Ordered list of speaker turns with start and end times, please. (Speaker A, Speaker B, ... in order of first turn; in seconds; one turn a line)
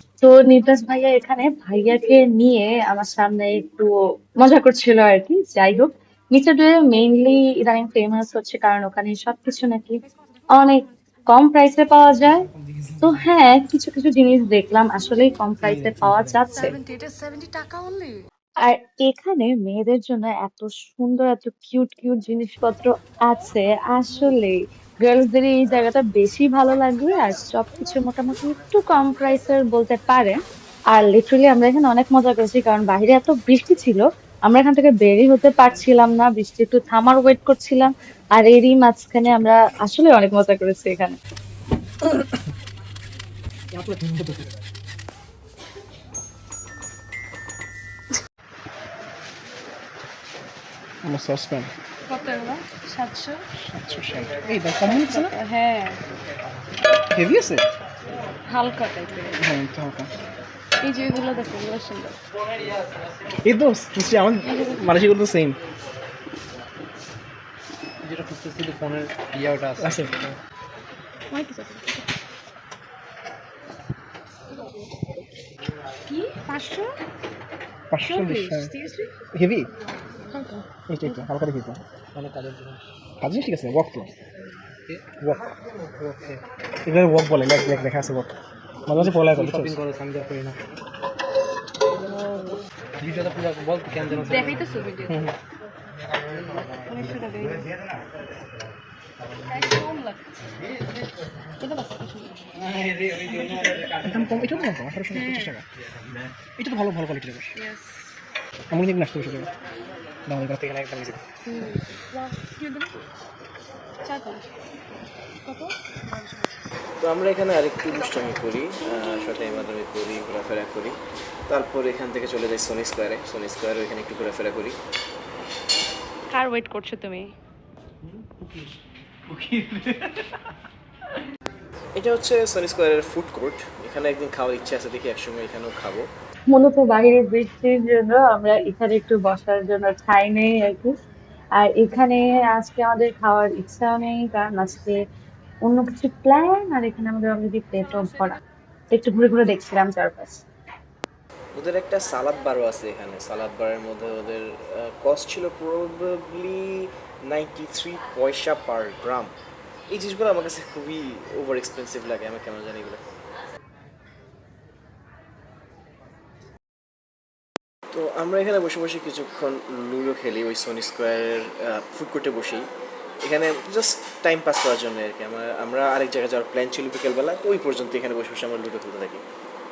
Speaker A: 0.2-12.5
Speaker A: 13.0-16.8
Speaker B: 15.7-16.4
Speaker C: 16.7-18.2
Speaker A: 18.6-30.4
Speaker A: 30.9-41.2
Speaker B: 51.0-51.7
Speaker C: 52.1-53.5
Speaker B: 53.6-55.4
Speaker C: 54.8-56.0
Speaker B: 57.1-57.6
Speaker C: 58.5-59.4
Speaker B: 59.4-60.1
Speaker C: 60.8-62.1
Speaker B: 63.5-65.6
Speaker C: 64.4-64.9
Speaker D: 68.0-70.4
Speaker B: 69.8-70.1
Speaker C: 71.3-72.1
Speaker C: 76.1-76.9
Speaker B: 77.9-78.7
Speaker C: 78.0-79.1
Speaker B: 79.3-79.7
Speaker C: 80.3-81.2
Speaker B: 80.9-81.8
Speaker D: 82.1-82.8
Speaker B: 83.2-84.1
Speaker B: 85.2-85.5
Speaker D: 86.0-86.4
Speaker B: 86.9-88.4
Speaker B: 88.9-89.8
Speaker D: 88.9-90.8
Speaker C: 92.1-92.6
Speaker D: 93.0-95.0
Speaker C: 94.2-95.2
Speaker B: 95.0-95.3
Speaker C: 96.9-97.7
Speaker C: 99.5-100.2
Speaker C: 101.6-102.5
Speaker D: 102.7-104.1
Speaker B: 104.0-105.6
Speaker C: 105.1-105.5
Speaker B: 106.6-107.5
Speaker C: 107.5-108.1
Speaker B: 108.7-109.5
Speaker B: 110.3-111.2
Speaker C: 111.5-112.9
Speaker C: 114.0-114.5
Speaker C: 115.5-116.5
Speaker E: 117.0-121.0
Speaker E: 121.5-124.8
Speaker C: 126.3-127.3
Speaker E: 132.0-136.1
Speaker A: 136.5-141.0
Speaker A: 141.6-145.0
Speaker A: 145.6-148.4
Speaker A: 148.9-150.4
Speaker E: 151.5-159.3
Speaker E: 159.9-163.0
Speaker E: 167.9-172.7
Speaker E: 173.2-179.2